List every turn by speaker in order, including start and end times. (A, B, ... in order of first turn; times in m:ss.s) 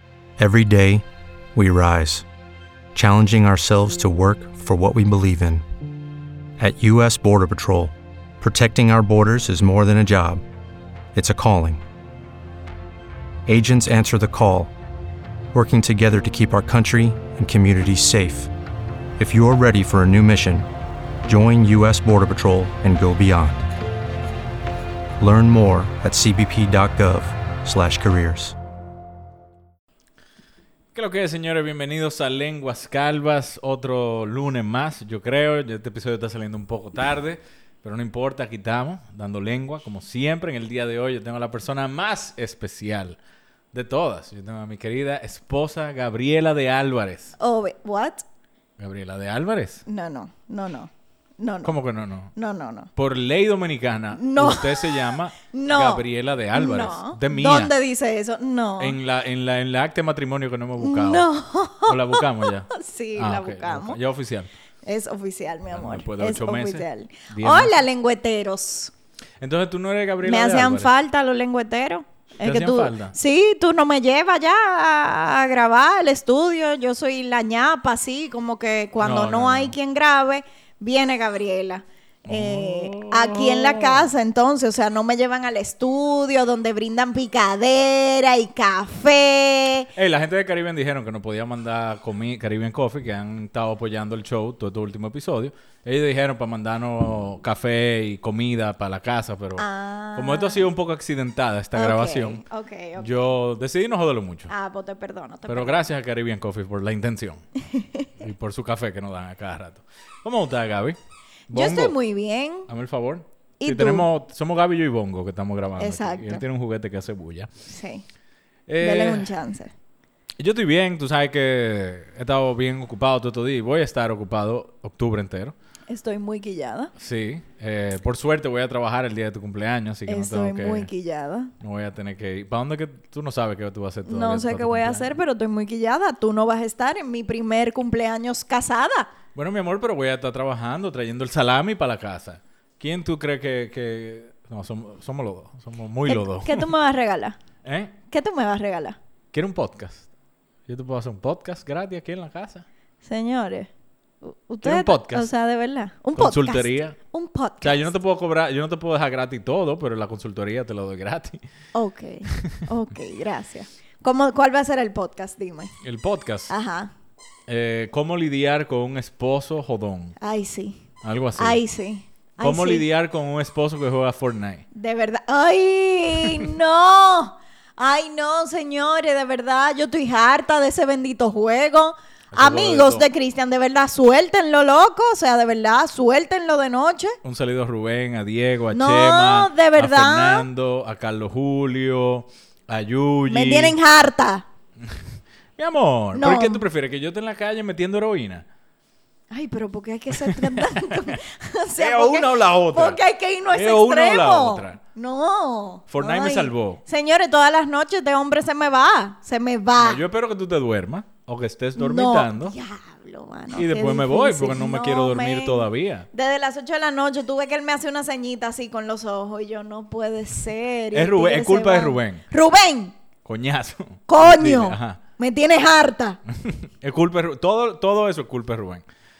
0:00.4-0:02.2 A
0:02.9-0:05.6 A
0:06.6-0:10.4 A
0:11.1-0:11.8 A
0:13.4-0:14.7 A
0:15.5-0:18.5 A
0:19.2-0:20.7 A
0:21.2-0:23.7 A
0:25.2-0:28.5 A
0:30.9-0:43.2 B
0:43.7-0:47.3 B
0:47.4-0:48.2 C
0:48.8-0:49.8 B
0:49.8-0:51.7 C
0:51.6-0:52.3 B
0:52.4-0:52.9 C
0:52.9-0:57.7 B
0:54.1-0:59.0 C
0:58.8-1:01.3 B
1:00.8-1:04.0 C
1:01.8-1:04.5 B
1:04.8-1:08.9 C
1:05.7-1:07.8 B
1:09.4-1:10.9 B
1:10.2-1:29.9 C
1:12.4-1:13.1 B
1:19.0-1:19.7 B
1:22.2-1:24.1 B
1:29.9-1:42.4 B
1:39.6-1:40.6 C
1:41.7-1:43.1 C
1:43.0-1:44.5 B
1:44.5-1:45.8 C
1:45.5-1:47.4 B
1:47.6-1:48.1 C
1:48.2-1:51.0 B
1:51.5-1:52.0 B
1:51.5-1:52.7 C
1:52.7-1:57.5 B
1:53.6-1:54.0 C
1:55.8-1:56.4 C
1:57.7-1:58.0 C
1:58.7-1:59.3 B
1:58.8-1:59.7 C
2:00.4-2:05.5 B
2:05.9-2:06.9 C
2:07.0-2:10.9 B
2:10.1-2:11.5 C
2:11.6-2:15.1 B
2:14.0-2:19.1 C
2:19.3-2:26.7 B
2:26.1-2:27.4 C
2:27.6-2:27.9 B
2:28.1-2:29.0 C
2:29.3-2:30.1 B
2:30.7-2:32.6 B
2:33.0-2:33.7 C
2:34.2-2:37.9 C
2:34.6-2:35.3 B
2:36.2-2:37.0 B
2:37.6-2:41.4 B
2:41.7-2:45.7 C
2:42.3-2:42.6 B
2:45.8-2:46.5 B
2:46.5-2:46.9 C
2:47.5-2:50.2 B
2:50.2-2:50.8 C
2:51.0-2:51.6 B
2:51.4-2:52.8 C
2:52.4-2:54.6 B
2:54.7-3:07.2 C
3:02.3-3:03.0 B
3:07.2-3:13.7 B
3:08.7-3:10.5 C
3:13.3-3:14.4 C
3:15.6-3:18.4 B
3:16.1-3:16.6 C
3:19.3-3:30.0 C
3:20.3-3:21.1 B
3:21.8-3:24.8 B
3:25.9-3:26.8 B
3:29.8-3:32.6 B
3:31.8-3:42.9 C
3:33.5-3:36.1 B
3:40.9-3:42.2 B
3:43.2-3:45.0 B
3:44.1-3:46.2 C
3:46.4-3:48.8 B